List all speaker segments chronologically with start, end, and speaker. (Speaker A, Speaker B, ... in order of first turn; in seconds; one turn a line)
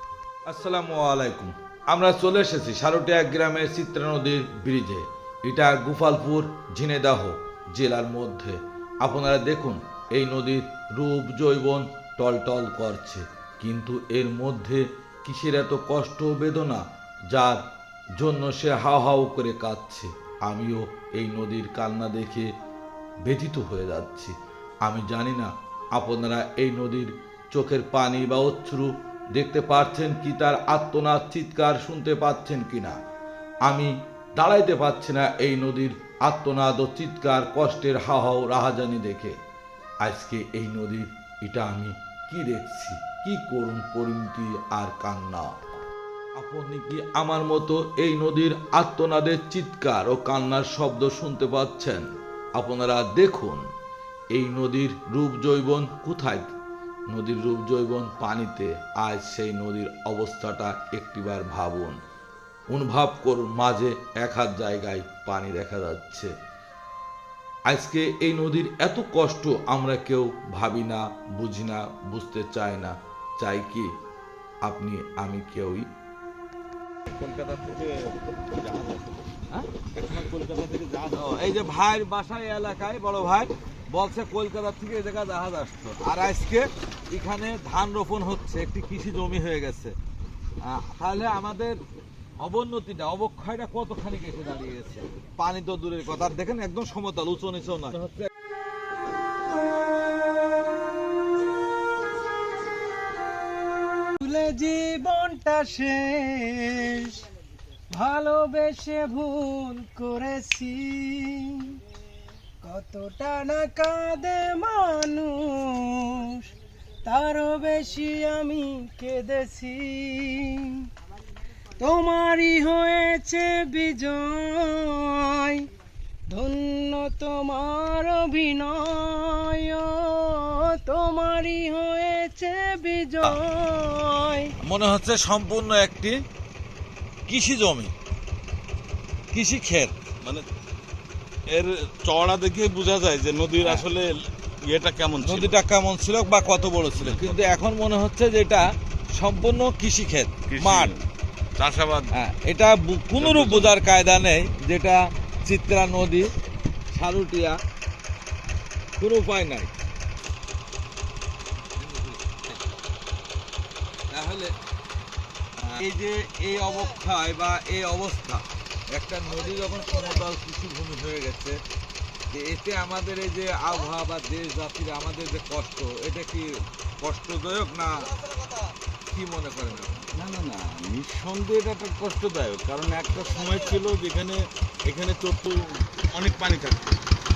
Speaker A: 0.5-17.6
Speaker A: 18.2-22.5
Speaker A: 23.2-33.0
Speaker A: 33.6-39.4
Speaker A: 40.0-45.5
Speaker A: 46.4-52.0
Speaker A: 52.6-53.6
Speaker A: 54.3-56.5
Speaker A: 57.1-61.9
Speaker A: 62.7-66.3
Speaker A: 67.7-73.9
Speaker A: 74.6-75.9
Speaker B: 77.1-79.4
Speaker B: 80.0-81.3
Speaker A: 81.1-89.9
Speaker A: 90.6-91.8
Speaker A: 92.4-98.3
Speaker C: 104.2-107.2
Speaker C: 107.9-111.8
Speaker C: 112.6-116.5
Speaker C: 117.0-120.9
Speaker C: 121.8-125.7
Speaker C: 126.3-134.5
Speaker A: 134.6-136.2
Speaker A: 137.3-137.9
Speaker A: 139.3-139.9
Speaker B: 141.5-145.6
Speaker A: 143.6-143.9
Speaker A: 145.2-150.9
Speaker B: 147.0-147.4
Speaker B: 150.5-151.1
Speaker B: 151.6-152.1
Speaker A: 152.1-156.3
Speaker B: 153.2-153.7
Speaker A: 156.9-157.6
Speaker A: 159.0-159.7
Speaker A: 161.8-162.6
Speaker A: 164.1-164.5
Speaker A: 165.7-171.6
Speaker A: 172.3-178.2
Speaker A: 179.1-180.1
Speaker B: 180.1-186.9